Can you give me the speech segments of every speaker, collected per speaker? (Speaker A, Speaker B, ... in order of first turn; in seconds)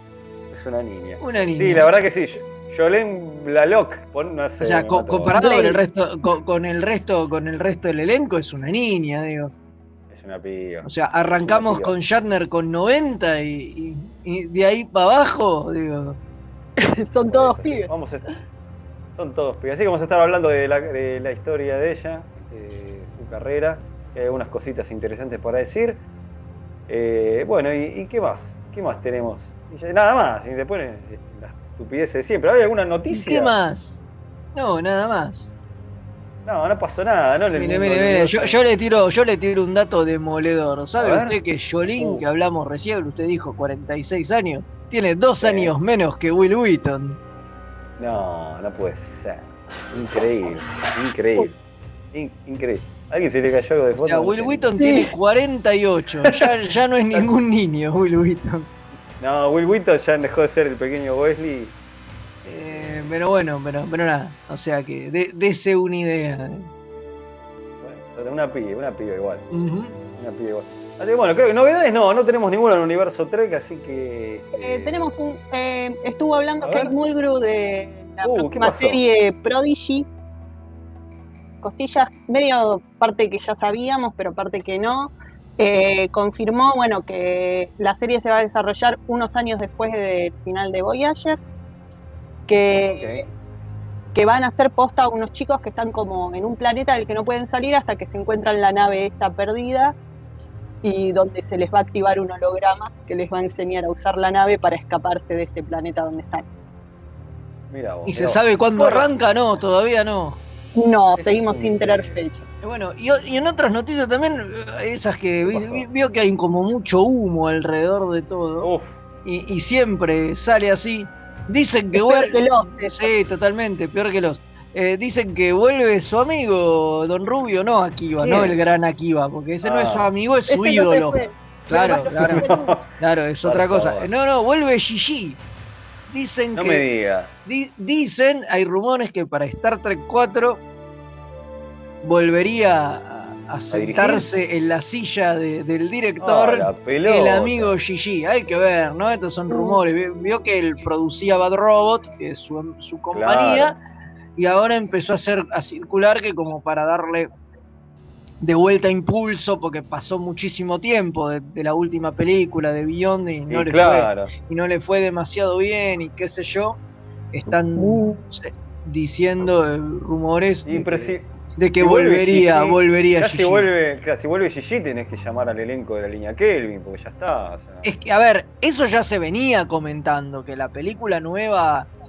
Speaker A: 0.5-5.3, 10.1-11.9, 17.3-18.3, 19.2-26.0, 26.9-33.5, 36.5-38.6, 41.0-41.4, 42.0-42.2, 45.4-45.7, 48.0-51.5, 52.1-54.7, 59.2-61.7, 62.5-63.1, 67.8-69.5, 70.2-75.0, 76.6-76.9, 78.2-79.0, 92.7-93.3, 107.7-109.1, 111.2-112.2, 115.5-115.9, 118.6-119.0, 129.6-130.1, 131.7-134.1, 136.6-137.3, 143.7-144.3, 146.2-147.7, 153.1-153.8, 163.5-164.3, 170.7-177.9
Speaker B: 1.2-1.9, 4.6-9.5, 10.8-16.2, 33.1-34.0, 34.5-35.5, 37.5-47.2, 53.9-58.7, 62.5-66.7, 69.5-70.0, 108.1-110.4, 112.6-118.7, 119.2-132.4, 133.0-135.4, 136.1-136.9, 137.4-140.6, 142.0-153.8, 154.4-157.3, 158.4-166.8, 167.3-173.7, 177.8-181.9
Speaker C: 5.4-5.8, 16.8-17.9, 54.8-55.1, 74.6-80.1, 81.6-91.4, 92.5-93.2, 94.1-100.0, 100.8-106.5, 110.8-112.5, 122.0-123.1, 130.5-132.7, 149.5-149.8, 167.8-168.2